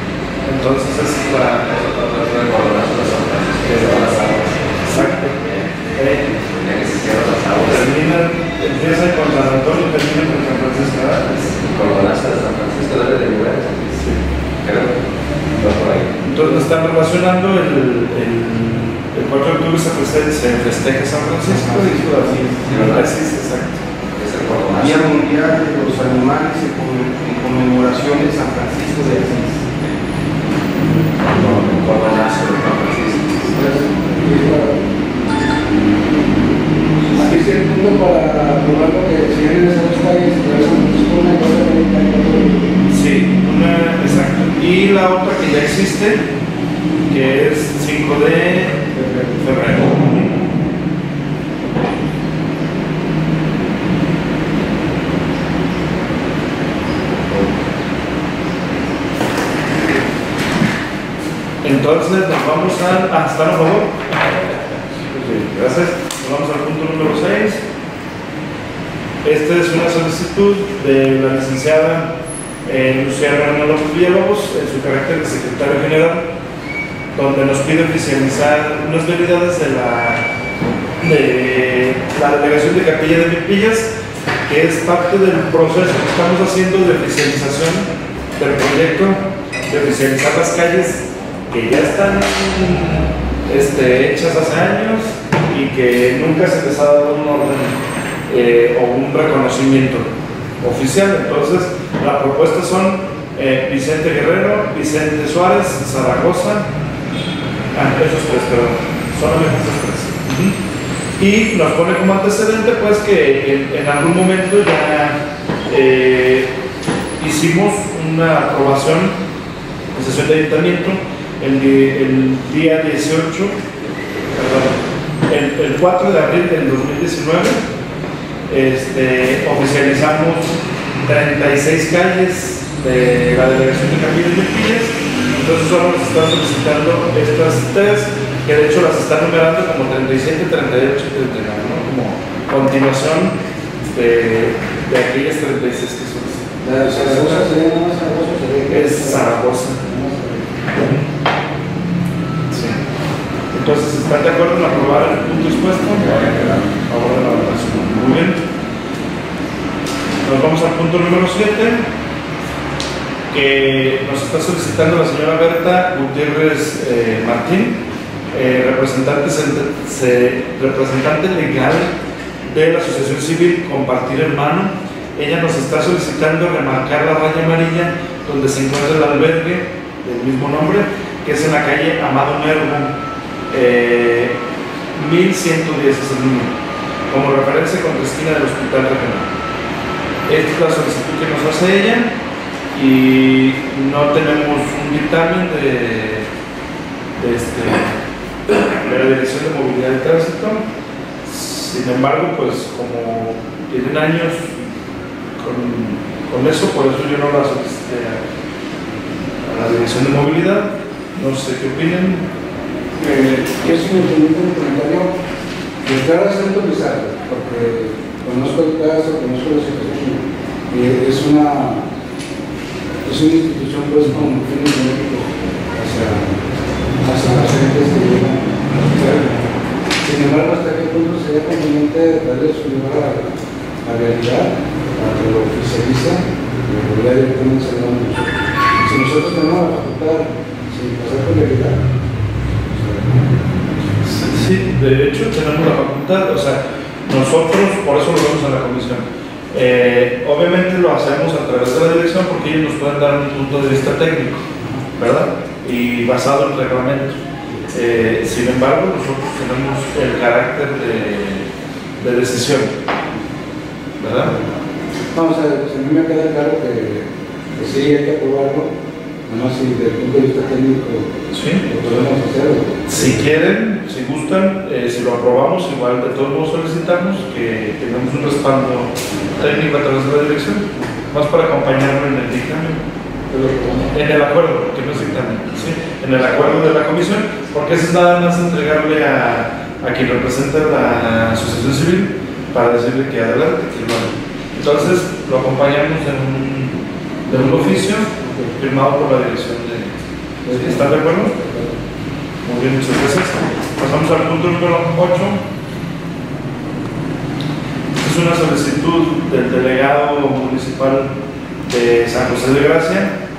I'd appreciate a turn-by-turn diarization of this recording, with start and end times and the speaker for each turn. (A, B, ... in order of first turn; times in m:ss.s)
0:00.4-0:01.8 A
0:01.7-0:05.0 B
0:03.7-0:04.0 A
0:04.8-0:06.3 A
0:06.4-0:07.9 B
0:07.7-0:11.6 A
0:11.6-0:14.0 B
0:14.6-0:14.9 B
0:15.5-0:16.2 B
0:16.2-0:23.8 A
0:21.5-0:22.6 C
0:22.7-0:23.0 B
0:24.2-0:25.1 B
0:24.8-0:29.6 C
0:31.3-0:33.4 B
0:33.5-0:34.8 D
0:37.1-0:42.7 D
0:42.9-0:46.2 A
0:47.1-0:48.8 A
0:48.9-0:49.4 D
0:49.4-0:50.3 A
1:01.6-1:04.4 A
1:05.1-1:07.6 A
1:09.2-1:12.1 A
1:12.6-1:16.3 A
1:17.1-1:20.2 A
1:21.0-1:23.9 A
1:24.5-1:40.1 A
1:40.6-1:46.7 A
1:47.7-1:50.5 A
1:51.2-1:56.5 A
1:57.2-1:59.2 A
1:59.9-2:03.5 A
2:04.3-2:07.6 A
2:08.5-2:27.5 A
2:26.6-2:30.5 D
2:28.7-2:29.8 A
2:30.7-2:31.0 A
2:32.5-2:32.8 A
2:33.5-2:38.4 A
2:36.1-2:36.6 B
2:40.2-2:41.8 A
2:43.3-2:47.8 A
2:48.3-2:51.9 A
2:52.5-3:02.9 A
3:03.5-3:04.3 A
3:04.9-3:06.5 A
3:07.1-3:09.3 A
3:10.3-3:12.1 A
3:12.7-3:16.2 A
3:17.2-3:18.0 A
3:18.5-3:20.6 A
3:21.2-3:24.5 A
3:25.4-3:28.2 A
3:29.4-3:32.2 A
3:33.0-3:35.1 D
3:35.8-3:41.8 D
3:43.0-3:46.3 D
3:47.0-3:49.4 D
3:50.0-4:01.8 D
4:02.7-4:03.3 D
4:04.0-4:14.4 A
4:15.0-4:21.4 A
4:22.0-4:22.8 A
4:24.0-4:24.3 A
4:25.1-4:28.7 D
4:29.2-4:31.1 D
4:31.3-4:31.6 A
4:31.6-4:33.2 D
4:32.9-4:42.8 A
4:43.3-4:43.9 D
4:43.9-5:01.3 A
4:57.3-4:58.5 D
5:00.4-5:01.8 D
5:02.4-5:05.4 A
5:08.0-5:11.1 A
5:11.6-5:13.1 A